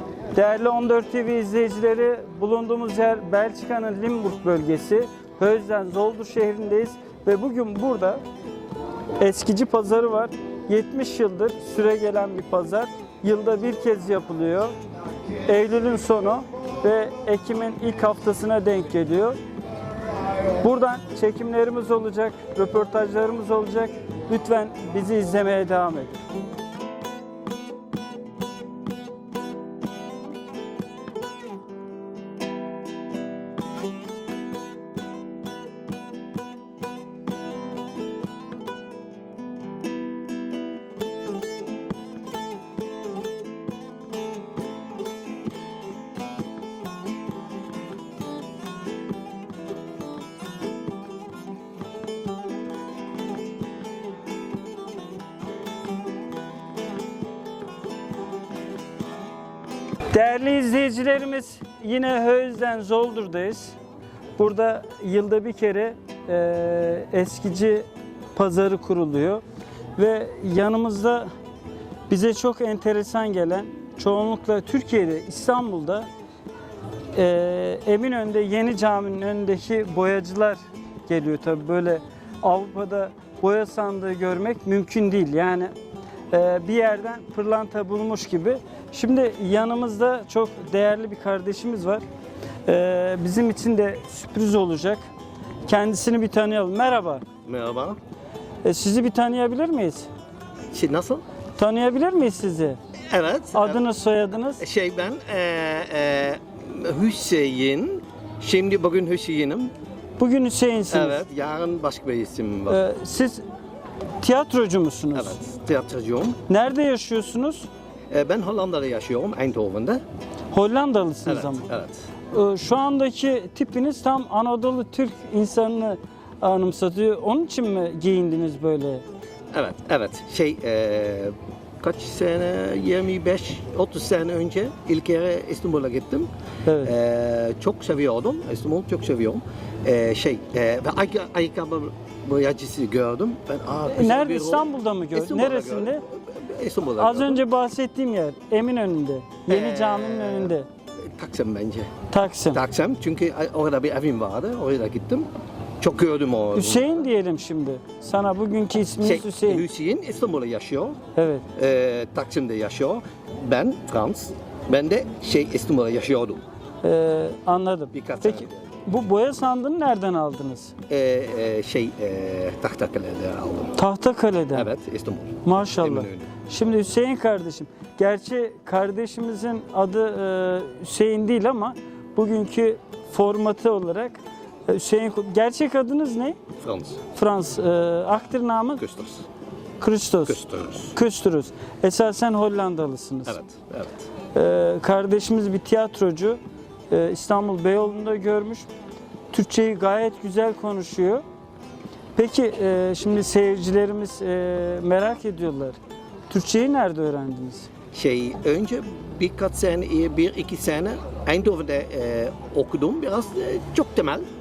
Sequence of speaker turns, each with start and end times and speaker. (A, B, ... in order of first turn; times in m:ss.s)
0:00.3-0:08.2 A
0:09.2-0:14.7 A
0:15.4-0:19.4 A
0:20.6-0:26.2 A
1:00.1-1:03.8 A
1:04.4-1:09.4 A
1:10.0-1:11.3 A
1:12.1-1:16.1 A
1:17.1-1:25.7 A
1:26.3-1:32.0 A
1:32.6-1:35.0 A
1:35.7-1:37.2 A
1:37.4-1:38.0 B
1:38.6-1:40.1 A
1:40.7-1:41.2 B
1:41.6-1:42.8 A
1:43.1-1:43.8 B
1:43.5-1:44.6 A
1:44.6-1:49.7 B
1:50.2-1:51.2 A
1:50.9-1:52.8 B
1:52.7-1:53.4 A
1:54.2-1:55.4 A
1:55.1-1:56.4 B
1:56.5-1:57.7 A
1:58.1-2:00.0 B
2:00.5-2:01.7 A
2:01.2-2:02.0 B
2:02.3-2:09.0 A
2:09.5-2:16.3 B
2:16.6-2:16.9 A
2:16.8-2:27.4 B
2:23.9-2:26.0 A
2:27.0-2:30.6 A
2:29.5-2:30.6 B
2:31.1-2:31.9 B
2:32.1-2:32.6 A
2:32.5-2:35.3 B
2:35.8-2:37.0 B
2:36.5-2:39.6 A
2:39.0-2:41.0 B
2:41.2-2:41.4 A
2:41.5-2:46.4 B
2:46.8-2:50.7 A
2:47.9-2:48.8 B
2:50.9-2:53.7 B
2:53.7-2:54.7 A
2:54.5-2:56.4 B
2:55.4-3:06.4 A
3:06.6-3:07.0 B
3:07.1-3:08.8 A
3:08.8-3:09.2 B
3:09.8-3:10.4 A
3:10.2-3:11.0 B
3:10.9-3:13.4 A
3:13.3-3:14.1 B
3:14.3-3:16.4 A
3:16.9-3:18.7 A
3:19.3-3:21.2 A
3:22.2-3:25.8 A
3:26.3-3:27.7 A
3:27.9-3:34.2 B